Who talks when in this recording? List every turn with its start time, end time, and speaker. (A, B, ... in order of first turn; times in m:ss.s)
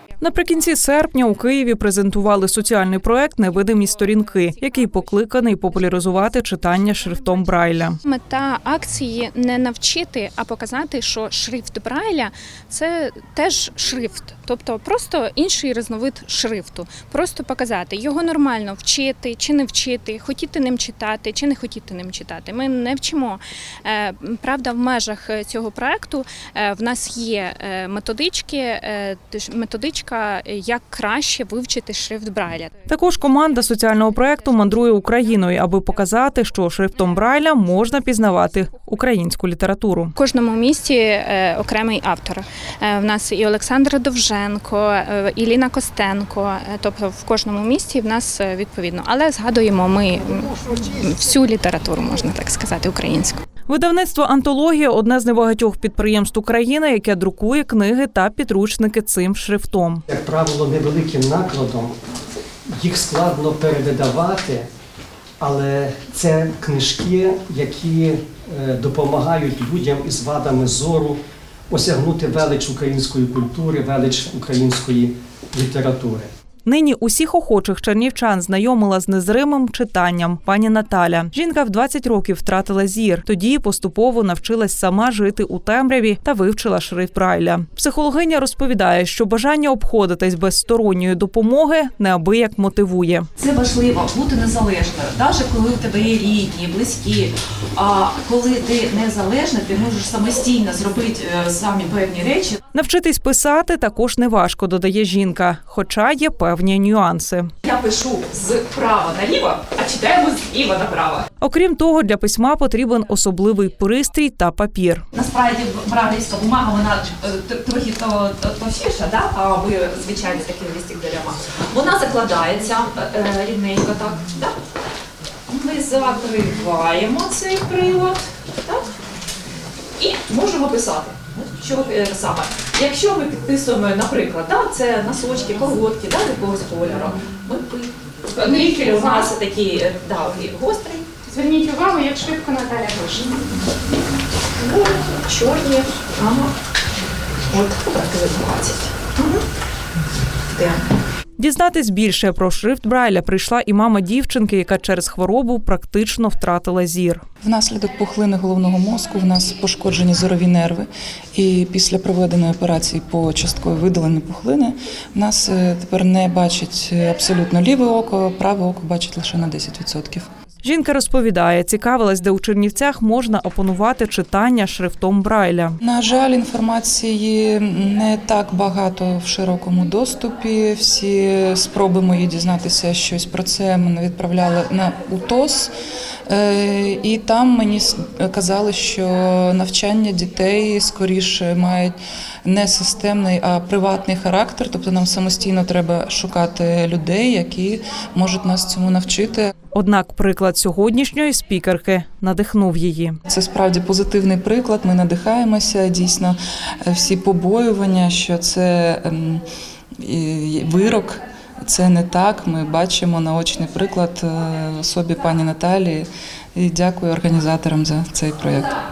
0:00.2-0:08.0 A
0:08.1-0:32.7 B
0:32.9-0:40.1 A
0:40.2-0:53.4 B
0:53.7-1:00.0 A
1:00.1-1:02.0 C
1:02.8-1:04.7 C
1:05.4-1:16.3 C
1:16.6-1:33.3 A
1:33.4-1:42.6 D
1:42.7-1:47.5 A
1:47.6-1:51.3 D
1:51.4-1:55.0 A
1:55.1-2:04.6 D
2:05.5-2:08.8 D
2:10.0-2:21.0 D
2:18.4-2:19.3 B
2:21.2-2:23.4 B
2:24.6-2:26.5 D
2:27.5-2:29.4 D
2:30.5-2:30.8 D
2:31.4-2:37.2 A
2:37.4-2:50.3 E
2:50.6-2:55.8 A
2:55.8-3:05.7 E
3:06.3-3:19.5 E
3:19.7-3:23.2 A
3:23.3-3:29.4 E
3:30.0-3:38.8 E